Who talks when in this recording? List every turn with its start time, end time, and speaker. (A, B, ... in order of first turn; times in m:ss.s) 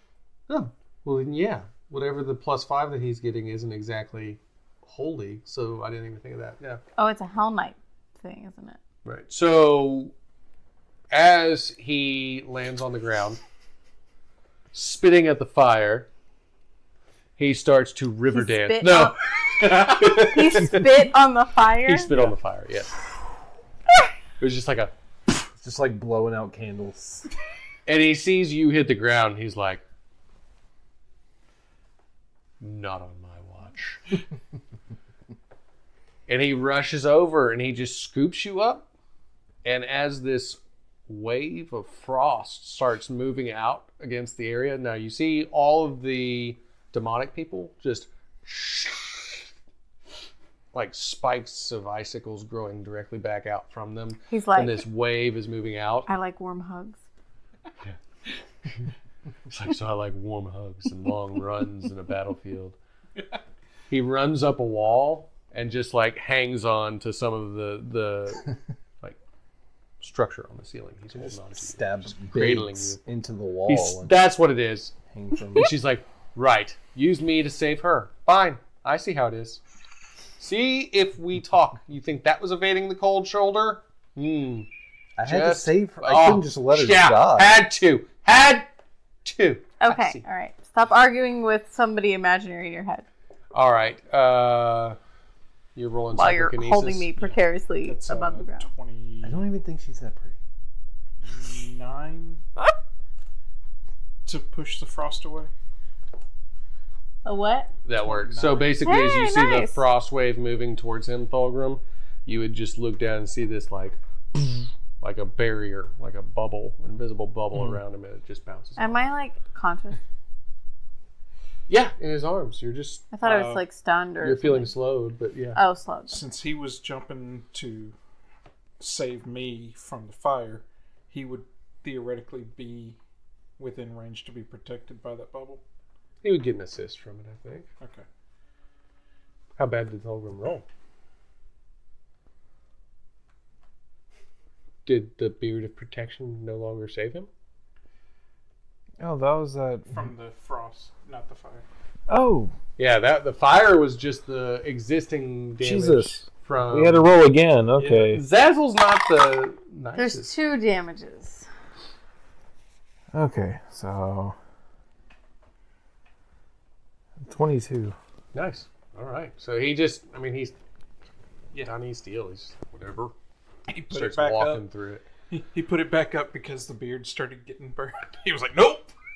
0:00.5-0:06.8 A
0:07.0-0:08.8 B
0:09.0-0:10.1 A
0:11.1-0:13.4 A
0:14.7-0:16.1 A
0:17.4-0:21.0 A
0:18.3-0:22.1 B
0:21.8-0:23.1 A
0:24.4-0:24.9 A
0:25.6-0:27.3 C
0:27.8-0:29.8 A
0:32.6-0:34.2 A
0:36.3-0:38.9 A
0:39.6-0:49.5 A
0:50.7-0:56.1 A
0:54.3-0:54.8 B
0:56.1-0:57.0 B
0:58.6-0:58.9 A
0:59.5-1:02.8 A
1:03.9-1:09.2 A
1:10.0-1:13.0 A
1:11.1-1:14.1 C
1:13.7-1:14.9 A
1:15.1-1:15.7 C
1:15.5-1:19.6 A
1:20.4-1:24.7 A
1:25.2-1:27.6 C
1:25.2-1:28.7 A
1:29.2-1:30.2 A
1:29.8-1:33.0 B
1:33.5-1:35.0 A
1:35.7-1:37.3 A
1:36.1-1:38.7 B
1:37.8-1:39.4 D
1:39.2-1:40.4 C
1:41.2-1:42.4 D
1:44.2-1:45.5 D
1:47.2-1:47.7 B
1:47.8-1:59.0 A
1:48.0-1:48.8 D
1:48.8-1:49.8 B
1:58.8-2:00.0 B
2:01.7-2:03.1 A
2:03.1-2:04.7 B
2:03.2-2:03.6 D
2:04.2-2:05.6 A
2:05.5-2:06.2 B
2:06.1-2:08.0 D
2:08.8-2:13.0 D
2:13.6-2:15.6 D
2:16.2-2:17.7 A
2:17.8-2:18.0 D
2:19.6-2:20.6 A
2:24.8-2:27.3 A
2:29.0-2:30.1 E
2:29.9-2:31.6 D
2:32.1-2:32.5 E
2:32.8-2:37.1 A
2:35.6-2:38.2 E
2:37.8-2:38.1 D
2:38.1-2:40.3 A
2:39.9-2:41.5 B
2:43.1-2:44.4 E
2:47.2-2:48.0 E
2:48.3-2:50.5 A
2:51.6-2:53.1 A
2:53.7-2:54.6 D
2:53.9-2:55.0 A
2:55.3-2:58.9 D